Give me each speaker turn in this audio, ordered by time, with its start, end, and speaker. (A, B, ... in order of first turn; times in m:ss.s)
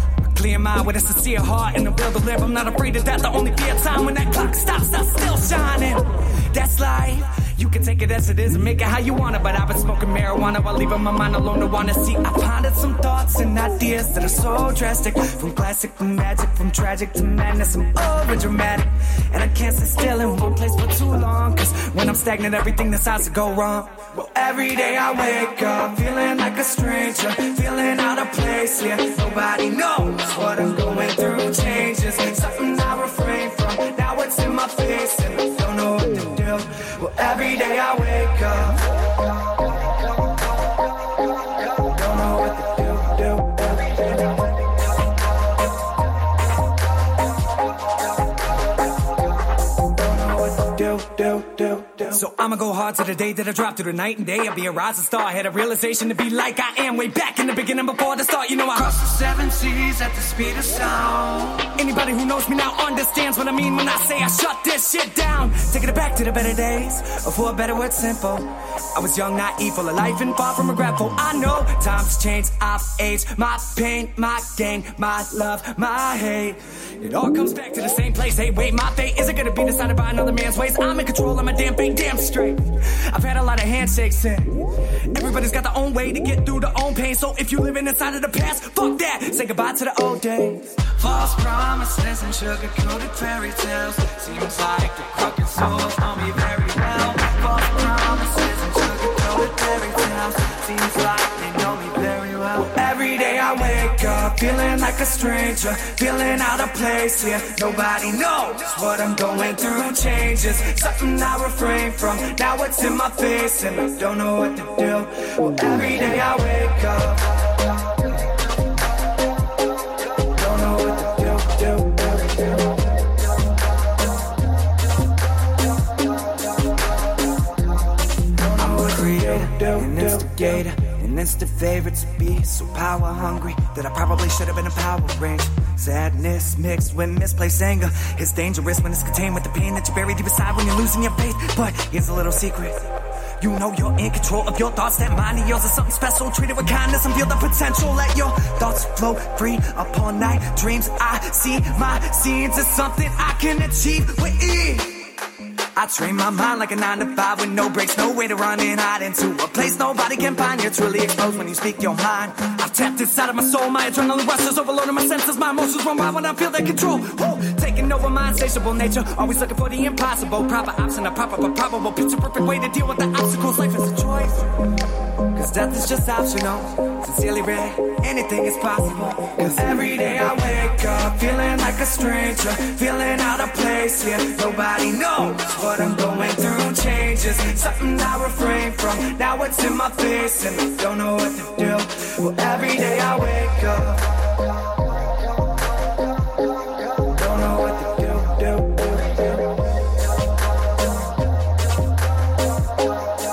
0:00.2-0:38.8 A
0:41.7-0:44.2 A
0:49.9-1:24.6 A
1:25.1-1:57.4 A
2:00.2-2:02.4 A
2:08.4-2:22.8 A
2:23.4-2:35.2 A
2:35.7-2:54.7 A
2:55.3-3:14.1 A
3:17.0-3:19.4 A